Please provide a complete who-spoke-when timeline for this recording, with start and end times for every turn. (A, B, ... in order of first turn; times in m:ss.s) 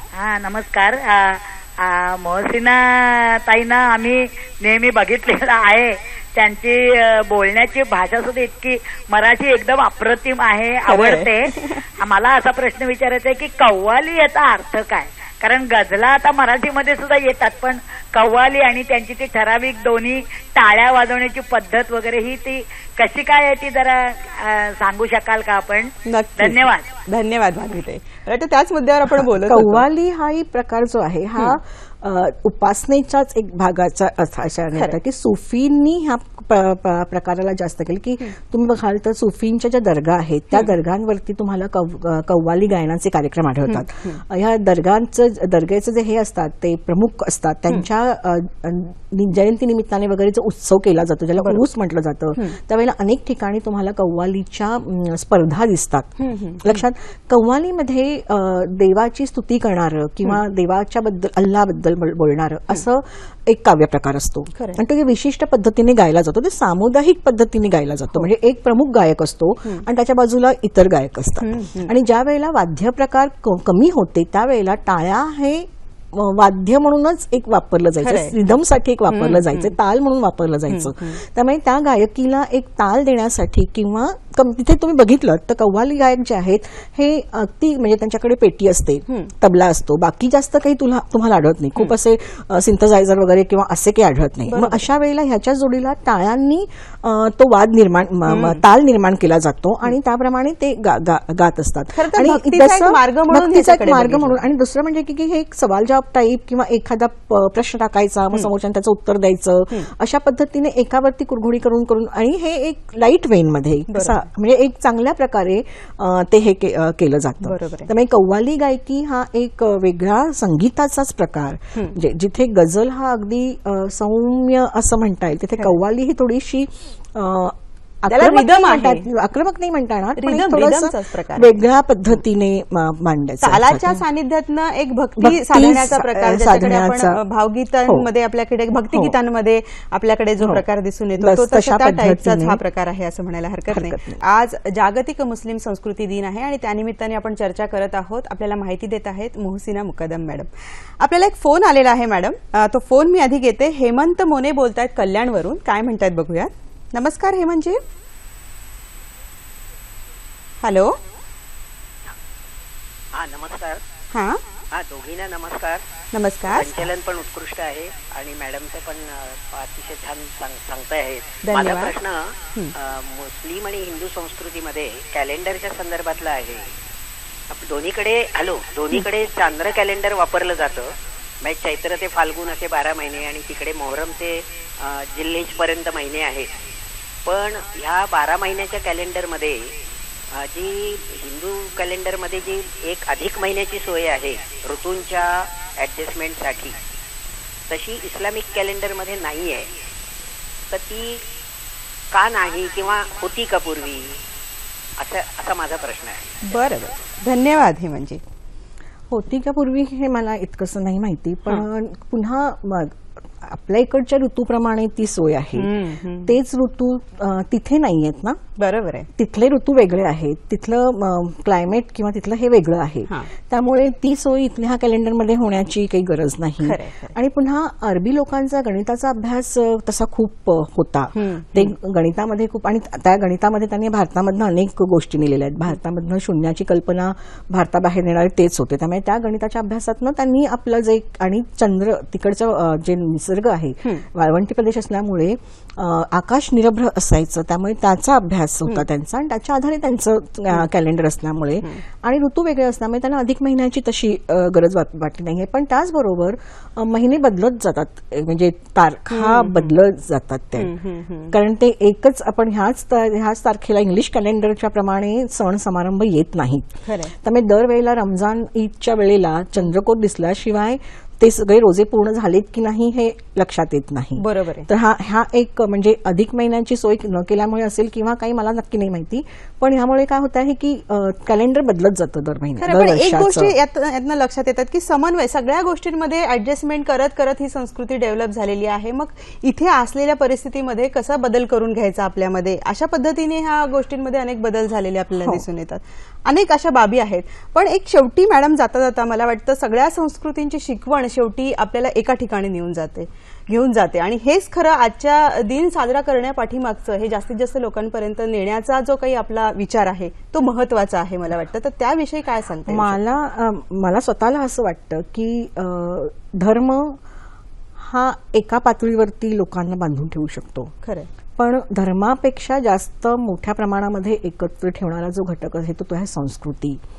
0:00.1-0:26.9 A
0:10.9-0:11.8 B
0:26.1-0:29.8 B
0:29.3-2:14.0 C
0:43.7-0:44.2 B
0:51.4-0:51.7 B
0:56.2-0:56.8 B
1:11.4-1:11.9 B
1:18.0-1:18.5 B
1:19.1-1:19.7 B
1:20.7-1:21.2 B
1:34.5-1:34.8 B
1:38.3-1:38.6 B
1:42.0-1:44.4 B
1:53.9-1:54.2 B
1:57.4-1:57.9 B
2:08.1-2:09.0 B
2:10.2-2:11.6 B
2:13.4-2:37.8 B
2:15.2-2:17.2 C
2:21.2-2:22.6 C
2:23.7-2:24.2 C
2:40.6-2:41.0 B
2:43.1-2:43.8 D
2:44.1-2:44.4 B
2:44.7-2:45.8 D
2:46.1-2:46.9 B
2:46.5-2:56.8 D
2:51.4-2:52.0 B
2:57.5-3:06.5 D
3:07.2-3:09.7 D
3:10.3-3:16.8 D
3:17.7-3:19.7 D
3:20.7-3:21.3 D
3:22.1-3:24.2 D
3:25.0-3:26.4 D
3:26.5-3:28.2 B
3:29.1-3:35.7 C
3:35.6-3:36.3 B
3:36.2-3:38.4 C
3:38.6-3:39.1 B
3:39.2-4:20.7 C
3:46.6-3:47.2 B
3:51.1-3:51.7 B
4:19.1-4:19.7 B
4:20.6-4:21.4 B
4:21.3-4:43.6 C
4:26.8-4:27.1 B
4:34.2-4:34.7 B
4:42.6-5:13.0 B
5:12.7-5:17.0 C
5:17.8-5:20.7 C
5:21.4-5:26.8 C